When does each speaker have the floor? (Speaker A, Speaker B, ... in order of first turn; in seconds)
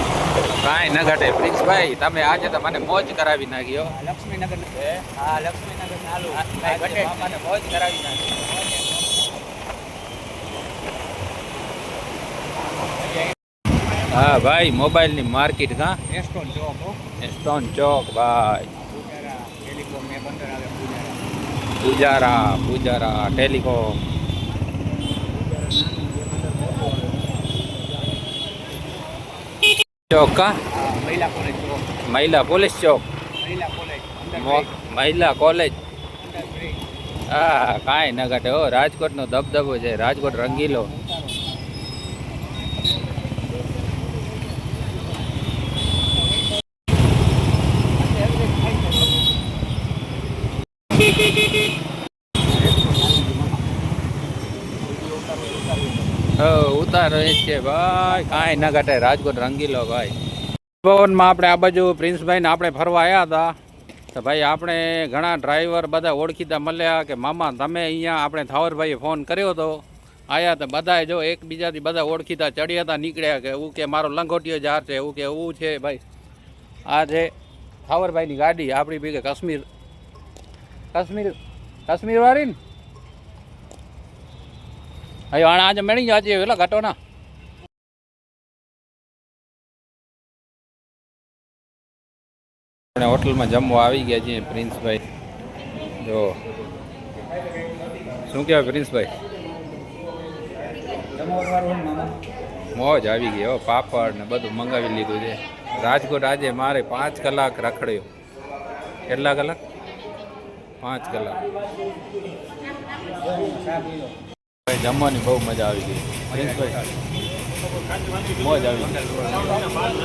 Speaker A: 0.6-4.0, 4.8-5.0, 6.3-8.4, 14.0-16.0, 17.2-18.7, 21.8-24.0, 30.1-30.6, 32.0-33.0, 34.3-35.7, 37.3-40.9, 56.4-60.1, 60.8-63.5, 64.1-76.0, 76.9-77.3, 77.9-79.7, 80.9-81.4, 81.9-82.6, 85.3-87.0, 93.0-95.0, 96.0-96.4, 98.3-99.1, 102.7-108.1, 109.1-109.6, 110.8-111.4, 114.7-116.9, 118.3-119.6
Speaker B: 3.9-7.5, 8.3-9.2, 16.1-17.0, 18.8-21.2, 30.7-31.9, 33.4-34.7, 36.2-36.8, 40.7-41.2, 48.1-49.1, 52.5-53.8, 54.8-56.2, 58.2-58.6, 101.2-102.1, 113.4-113.9